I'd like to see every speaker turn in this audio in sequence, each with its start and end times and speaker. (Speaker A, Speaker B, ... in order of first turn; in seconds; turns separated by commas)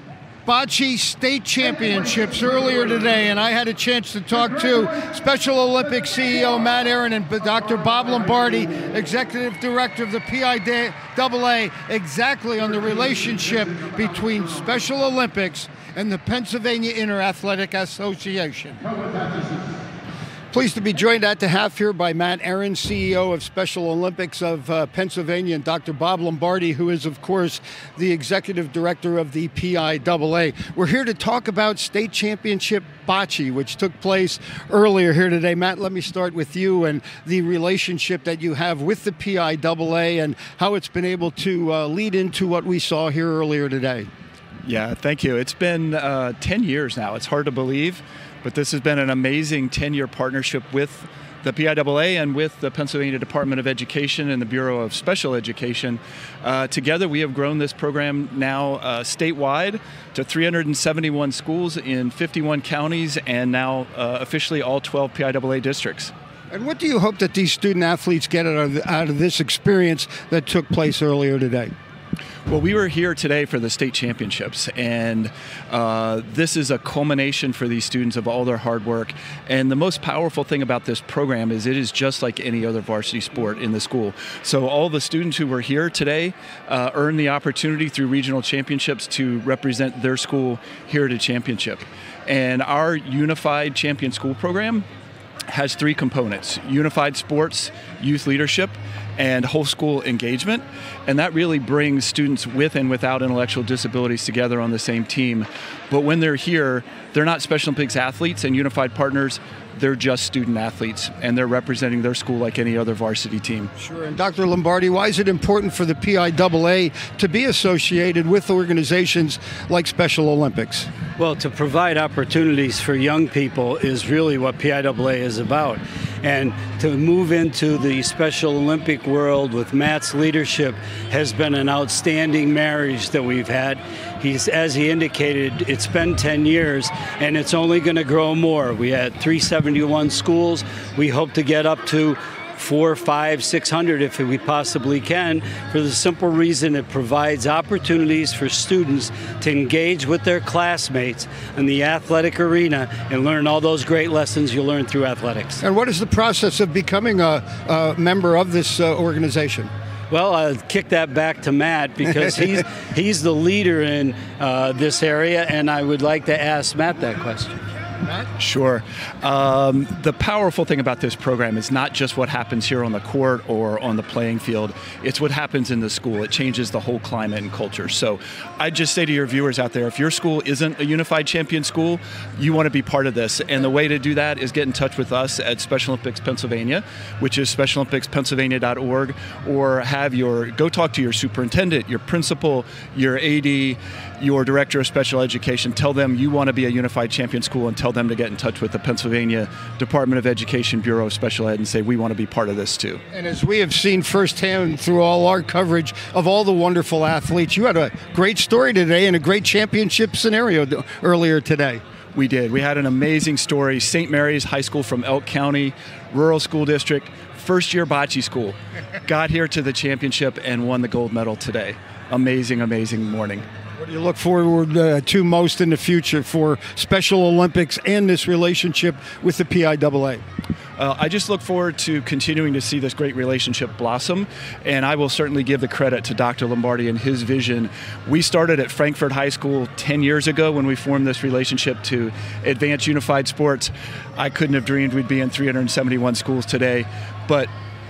Speaker A: 0.5-18.8, Speaker A: 20.5-44.1, Speaker B: 44.6-66.1, Speaker A: 66.5-71.7, Speaker B: 72.5-94.8, Speaker B: 95.5-113.7, Speaker A: 113.8-120.9, Speaker C: 121.2-155.6, Speaker A: 155.6-159.7, Speaker C: 160.1-167.6, Speaker B: 168.4-203.0, Speaker A: 203.1-211.8, Speaker B: 212.1-223.4, Speaker A: 223.8-230.2, Speaker B: 230.8-247.5